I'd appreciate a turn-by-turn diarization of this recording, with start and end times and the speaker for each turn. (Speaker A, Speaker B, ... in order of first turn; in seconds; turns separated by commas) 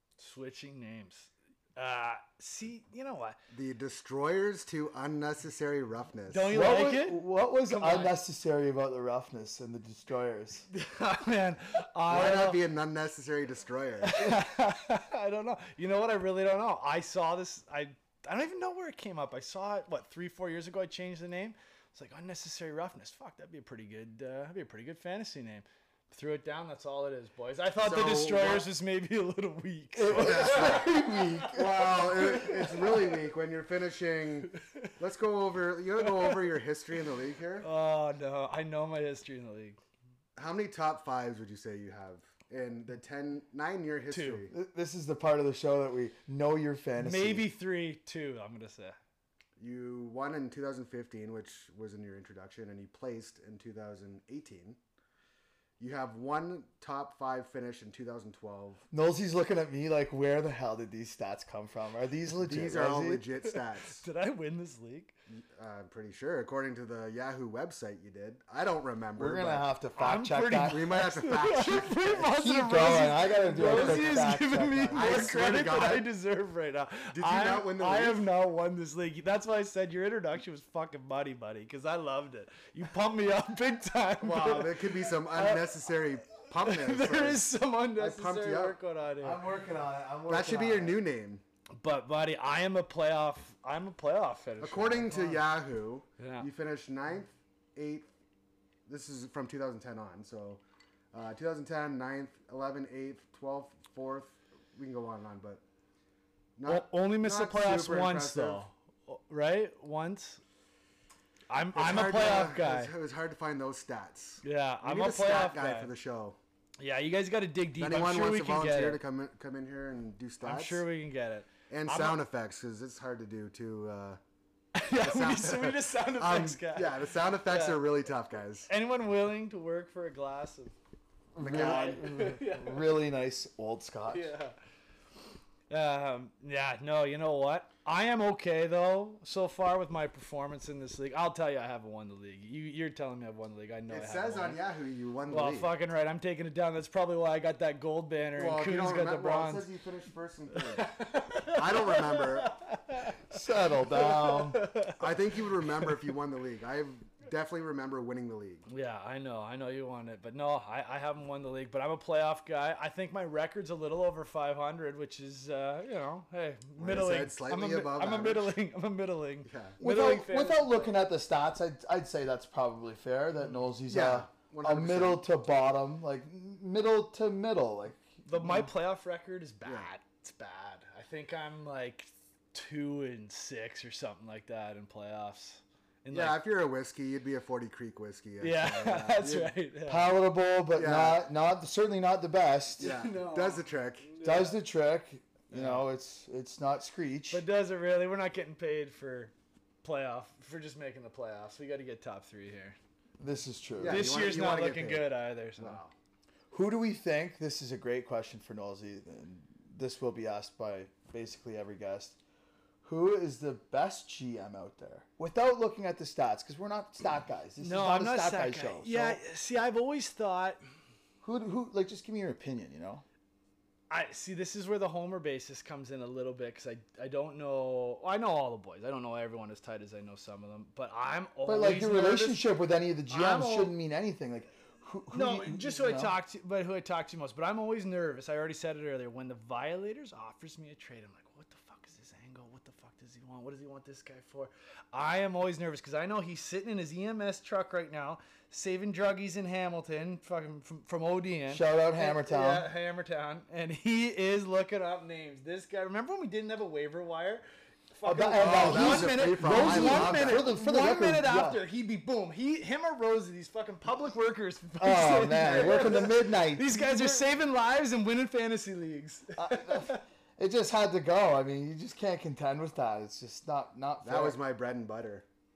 Speaker A: 0.2-3.4, Speaker B: 3.5-6.5, Speaker A: 6.3-8.2, Speaker C: 6.5-10.7, Speaker A: 10.7-12.6, Speaker B: 12.1-14.3, Speaker A: 14.0-33.1, Speaker B: 27.8-28.7, Speaker C: 29.9-32.5, Speaker B: 30.1-30.9, Speaker B: 31.5-37.7, Speaker A: 34.5-34.9, Speaker A: 36.0-36.4, Speaker A: 37.6-39.8, Speaker B: 40.4-44.5, Speaker A: 44.1-44.4, Speaker C: 44.5-47.5, Speaker A: 47.0-49.0, Speaker B: 49.6-54.8, Speaker B: 55.8-58.8, Speaker C: 58.9-63.2, Speaker B: 62.3-64.0, Speaker A: 63.5-65.1, Speaker B: 65.3-69.7, Speaker C: 69.2-70.9, Speaker A: 70.0-85.7, Speaker B: 70.7-72.4, Speaker C: 72.3-75.2, Speaker B: 73.6-74.1, Speaker B: 74.9-76.1, Speaker B: 77.1-78.2, Speaker B: 84.2-87.4, Speaker A: 86.6-89.5, Speaker B: 88.0-88.8, Speaker C: 89.2-91.0, Speaker B: 90.3-91.4, Speaker A: 91.8-95.2, Speaker B: 94.6-98.1, Speaker C: 95.1-95.4, Speaker A: 96.2-96.5, Speaker B: 98.9-105.6, Speaker B: 106.6-108.6, Speaker A: 106.7-110.4, Speaker A: 111.5-112.9, Speaker B: 111.7-116.4, Speaker A: 114.4-115.9, Speaker A: 116.8-119.0, Speaker B: 117.8-120.8, Speaker A: 120.4-122.2, Speaker B: 121.7-124.2, Speaker A: 124.7-127.8, Speaker B: 124.9-128.7, Speaker A: 128.7-130.7, Speaker C: 131.3-134.3, Speaker B: 131.4-132.0, Speaker A: 131.4-133.0, Speaker A: 134.1-134.6, Speaker A: 135.7-144.6, Speaker B: 143.9-145.7, Speaker A: 145.3-149.7, Speaker B: 148.3-150.9, Speaker A: 150.5-153.2, Speaker B: 151.5-152.5, Speaker C: 153.3-154.6, Speaker A: 153.8-155.2, Speaker B: 155.0-158.7, Speaker A: 158.7-170.9, Speaker B: 166.8-168.5, Speaker B: 169.4-169.8, Speaker C: 169.8-178.7, Speaker B: 173.9-175.2, Speaker A: 178.3-186.4, Speaker B: 179.6-179.9, Speaker B: 186.1-189.5, Speaker A: 188.4-190.1, Speaker C: 189.9-193.0, Speaker B: 190.8-191.2, Speaker B: 192.8-194.1, Speaker A: 192.8-194.6, Speaker C: 194.2-197.4, Speaker A: 195.5-195.8, Speaker A: 197.3-202.8, Speaker C: 203.2-204.1, Speaker B: 203.8-205.9, Speaker A: 203.8-205.8, Speaker C: 206.5-212.2, Speaker C: 212.8-219.2, Speaker A: 217.6-220.6, Speaker C: 221.2-223.0, Speaker A: 223.9-232.4, Speaker C: 231.4-236.2, Speaker A: 233.1-233.7, Speaker A: 235.1-270.0, Speaker C: 251.5-252.7, Speaker C: 258.0-261.6, Speaker B: 258.4-260.5, Speaker C: 264.8-267.2, Speaker B: 265.6-266.0, Speaker C: 269.4-274.4, Speaker B: 274.0-275.2